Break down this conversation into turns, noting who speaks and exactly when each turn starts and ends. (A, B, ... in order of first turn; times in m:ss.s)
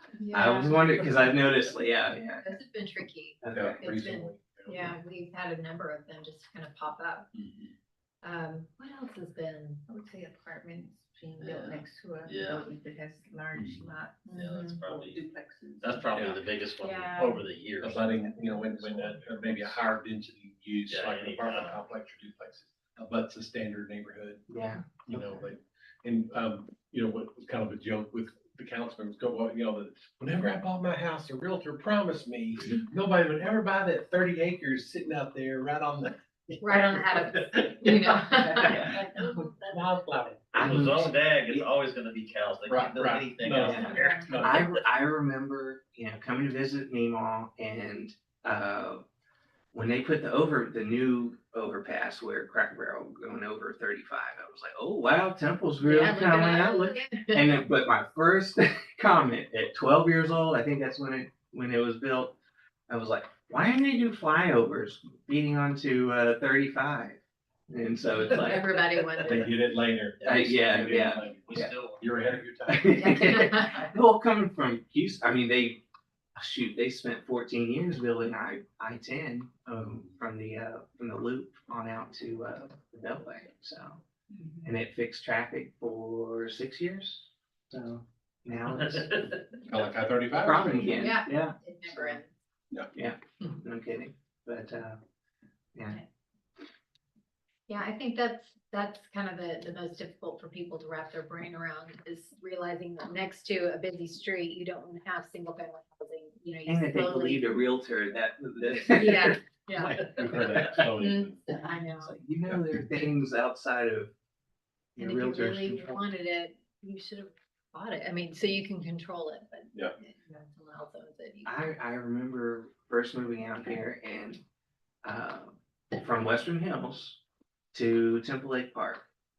0:00.2-0:00.9 A
0:00.3-0:02.6 B
0:01.0-0:01.3 C
0:02.4-0:07.3 A
0:03.4-0:03.8 B
0:03.5-0:05.0 D
0:07.4-0:07.7 C
0:08.2-0:09.8 A
0:09.9-0:16.1 E
0:11.4-0:12.7 C
0:14.3-0:14.7 A
0:14.3-0:15.2 C
0:15.8-0:18.1 C
0:16.1-0:16.4 D
0:16.8-0:17.4 A
0:17.8-0:24.4 D
0:18.4-0:18.7 E
0:18.8-0:19.8 C
0:20.9-0:21.8 C
0:24.5-0:25.4 B
0:25.1-0:38.2 D
0:36.6-0:40.1 A
0:38.6-0:39.0 C
0:38.7-0:40.9 D
0:40.5-0:41.7 B
0:40.5-0:44.6 C
0:42.7-0:44.6 D
0:43.7-0:49.0 B
0:43.7-0:44.6 A
0:49.7-1:02.4 B
0:55.8-0:57.5 A
1:02.9-1:08.6 B
1:08.2-1:09.4 A
1:09.2-1:09.5 C
1:09.2-1:13.2 D
1:10.2-1:12.2 C
1:10.2-1:11.7 B
1:12.7-1:15.8 B
1:12.9-1:13.9 A
1:16.4-1:24.0 B
1:24.6-1:29.4 B
1:29.7-1:31.1 D
1:30.3-1:32.2 B
1:31.0-1:32.3 A
1:32.9-1:35.0 B
1:37.7-1:47.4 A
1:46.7-1:50.9 B
1:48.8-1:50.1 A
1:50.2-1:51.4 D
1:51.0-1:52.1 A
1:52.0-1:54.1 B
1:55.0-1:56.0 B
1:55.0-2:01.7 A
2:01.4-2:04.4 B
2:05.0-2:07.2 B
2:07.7-2:09.1 B